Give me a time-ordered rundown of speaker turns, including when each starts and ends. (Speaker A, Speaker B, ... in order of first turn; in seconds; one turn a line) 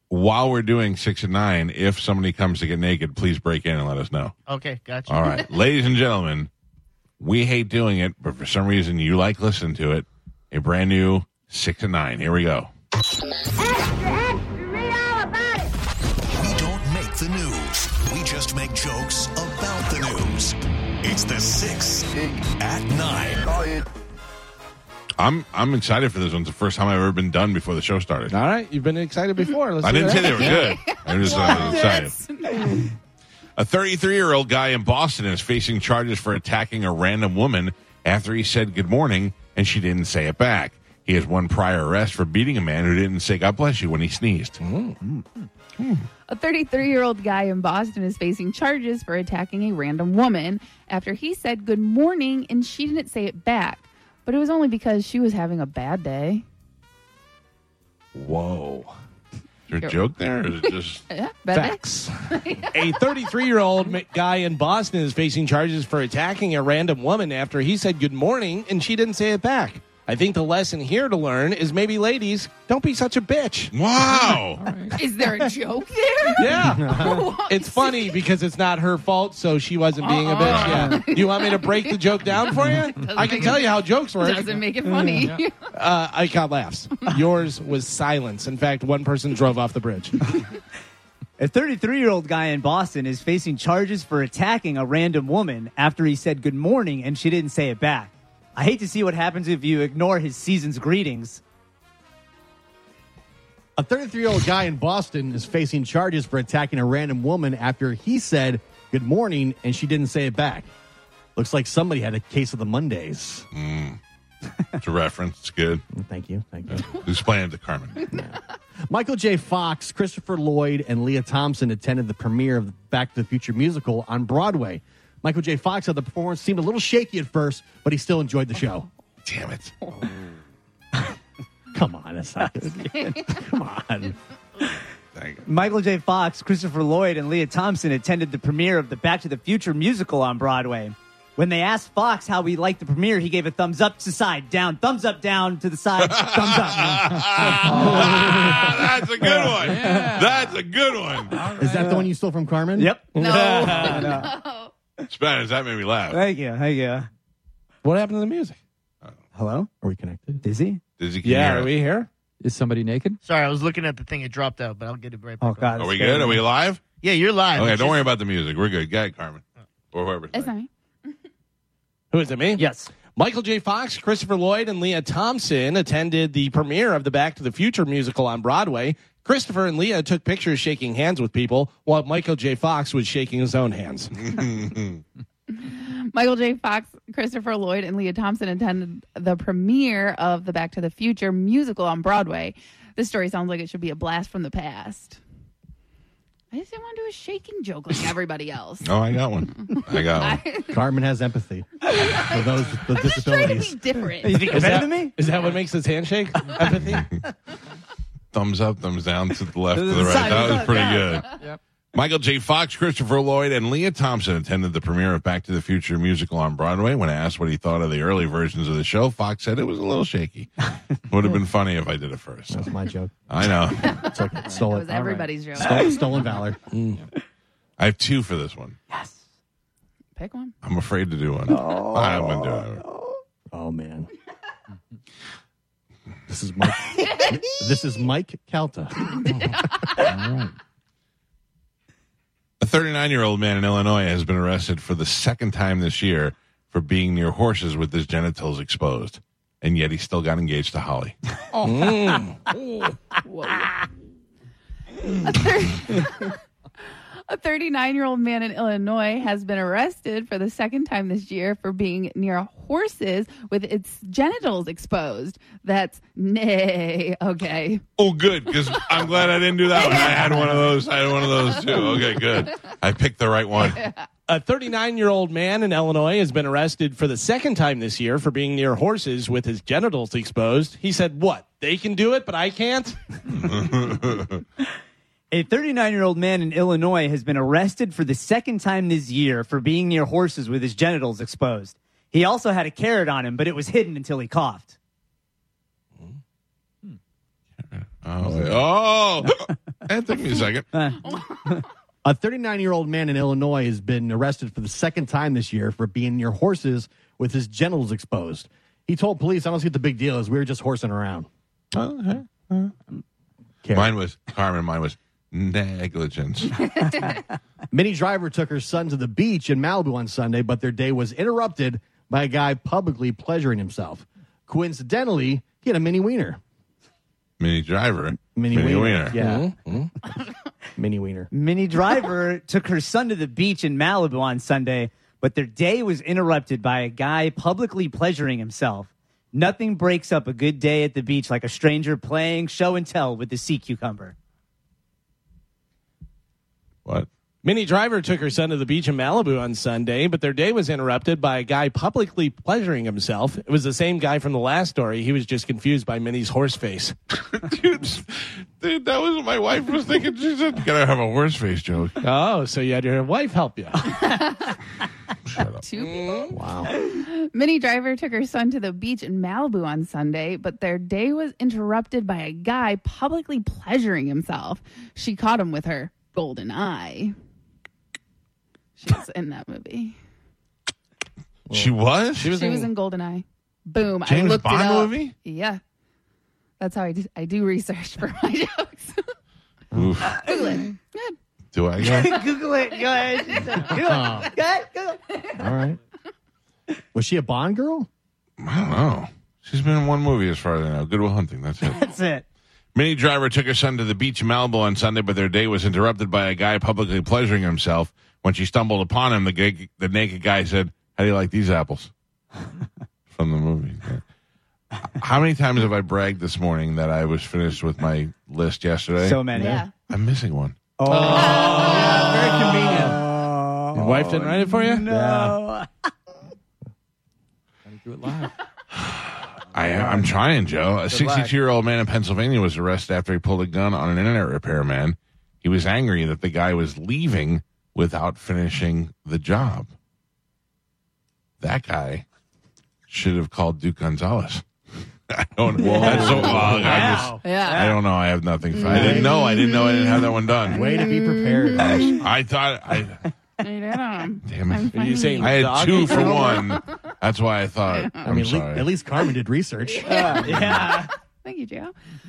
Speaker A: 0.1-4.3
Speaker B: 4.5-5.5
Speaker A: 5.1-6.5
Speaker A: 7.2-12.7
Speaker C: 16.4-23.7
Speaker A: 25.2-28.4
Speaker D: 28.3-30.7
Speaker A: 29.8-32.1
Speaker E: 30.1-32.8
Speaker A: 33.6-44.6
Speaker D: 44.6-45.0
Speaker A: 45.8-46.1
Speaker E: 46.3-56.5
Speaker D: 58.1-58.9
Speaker A: 59.7-61.0
Speaker E: 59.8-63.0
Speaker D: 61.5-74.4
Speaker A: 73.7-74.6
Speaker F: 74.6-75.0
Speaker E: 74.9-78.2
Speaker D: 76.4-84.6
Speaker G: 76.5-77.3
Speaker E: 80.0-85.6
Speaker A: 80.4-80.9
Speaker D: 85.7-90.2
Speaker H: 91.4-101.4
Speaker G: 103.8-110.7
Speaker G: 111.4-113.5
Speaker A: 113.5-114.0
Speaker A: 114.8-115.8
Speaker G: 115.9-116.9
Speaker A: 116.7-118.1
Speaker E: 118.0-118.2
Speaker G: 118.1-118.3
Speaker G: 118.9-128.9
Speaker A: 129.2-130.1
Speaker G: 131.7-134.2
Speaker E: 132.9-133.4
Speaker A: 135.2-135.4
Speaker H: 135.4-148.6
Speaker A: 146.1-151.5
Speaker H: 149.2-150.2
Speaker F: 149.7-150.2
Speaker H: 151.4-152.1
Speaker G: 151.6-152.9
Speaker H: 152.8-154.4
Speaker E: 153.2-154.7
Speaker D: 153.2-154.0
Speaker A: 155.1-156.2
Speaker H: 156.1-157.1
Speaker D: 157.8-158.6
Speaker H: 159.3-159.7
Speaker G: 159.8-160.4
Speaker H: 160.4-160.8
Speaker A: 161.0-161.7
Speaker D: 161.2-162.1
Speaker F: 162.4-163.2
Speaker B: 163.2-166.1
Speaker H: 165.4-166.4
Speaker A: 165.8-166.8
Speaker B: 167.0-168.2
Speaker A: 167.5-170.5
Speaker E: 170.3-170.7
Speaker D: 172.1-184.3
Speaker H: 172.6-172.9
Speaker A: 184.4-184.9
Speaker E: 185.5-195.2
Speaker E: 196.5-198.9
Speaker A: 198.8-200.4
Speaker E: 199.6-200.8
Speaker G: 200.7-203.8
Speaker E: 201.9-204.7
Speaker H: 204.2-205.2
Speaker D: 204.5-207.1
Speaker A: 208.3-211.3
Speaker H: 209.7-211.2
Speaker A: 211.9-222.7
Speaker G: 222.5-223.1
Speaker A: 223.3-224.1
Speaker E: 223.8-226.1
Speaker G: 224.0-226.6
Speaker D: 226.7-227.1
Speaker A: 227.8-228.8
Speaker H: 228.9-229.2
Speaker E: 230.2-230.5
Speaker A: 230.6-232.8
Speaker H: 231.5-233.2
Speaker G: 233.5-234.1
Speaker G: 236.3-239.2
Speaker E: 239.1-240.3
Speaker A: 242.6-251.2
Speaker D: 251.6-252.5
Speaker E: 253.2-253.9
Speaker E: 255.0-256.4
Speaker E: 257.3-267.8
Speaker A: 268.0-273.8
Speaker E: 268.5-269.1
Speaker E: 269.7-272.5
Speaker E: 273.6-274.0
Speaker D: 274.3-283.3
Speaker A: 283.4-284.3
Speaker H: 285.3-294.8
Speaker A: 297.6-300.8
Speaker E: 301.0-301.7
Speaker G: 302.0-311.3
Speaker A: 311.7-312.8
Speaker G: 313.6-314.0
Speaker A: 313.7-317.0
Speaker G: 317.7-326.4
Speaker A: 327.4-329.2
Speaker G: 328.4-329.5
Speaker D: 329.1-329.9
Speaker G: 330.8-331.3
Speaker H: 331.3-344.1
Speaker D: 347.4-356.9
Speaker A: 357.2-362.0
Speaker D: 362.0-363.9
Speaker E: 363.9-364.6
Speaker A: 365.3-365.6
Speaker E: 365.6-377.1
Speaker D: 365.8-366.4
Speaker G: 366.3-366.7
Speaker E: 378.8-380.0
Speaker G: 381.5-381.7
Speaker A: 381.5-382.4
Speaker D: 382.2-382.7
Speaker E: 382.3-385.6
Speaker A: 384.1-385.1
Speaker E: 386.6-389.1
Speaker A: 389.7-390.3
Speaker E: 390.2-391.1
Speaker A: 391.5-392.1
Speaker H: 391.8-395.0
Speaker E: 392.1-394.0
Speaker G: 393.9-394.3
Speaker G: 395.4-395.8
Speaker G: 396.9-397.9
Speaker A: 398.4-402.0
Speaker H: 401.6-402.2
Speaker A: 402.8-411.9
Speaker A: 413.1-414.0
Speaker A: 414.8-420.6
Speaker H: 419.0-419.6
Speaker E: 419.4-419.7
Speaker H: 420.8-425.7
Speaker G: 420.9-423.0
Speaker E: 421.1-422.4
Speaker D: 422.4-422.9
Speaker D: 423.7-424.9
Speaker G: 424.9-425.4
Speaker F: 427.8-428.3
Speaker A: 428.8-439.7
Speaker D: 430.9-431.3
Speaker A: 441.4-442.1
Speaker A: 442.9-444.4
Speaker A: 445.1-450.6
Speaker H: 445.6-447.8
Speaker G: 445.8-447.2
Speaker E: 447.2-447.7
Speaker E: 448.5-452.0
Speaker G: 448.7-449.1
Speaker G: 450.4-452.0
Speaker A: 451.6-453.1
Speaker E: 453.4-456.8
Speaker A: 454.2-458.7
Speaker D: 454.7-456.4
Speaker E: 457.7-458.1
Speaker G: 458.0-460.7
Speaker E: 459.7-461.7
Speaker H: 459.9-460.9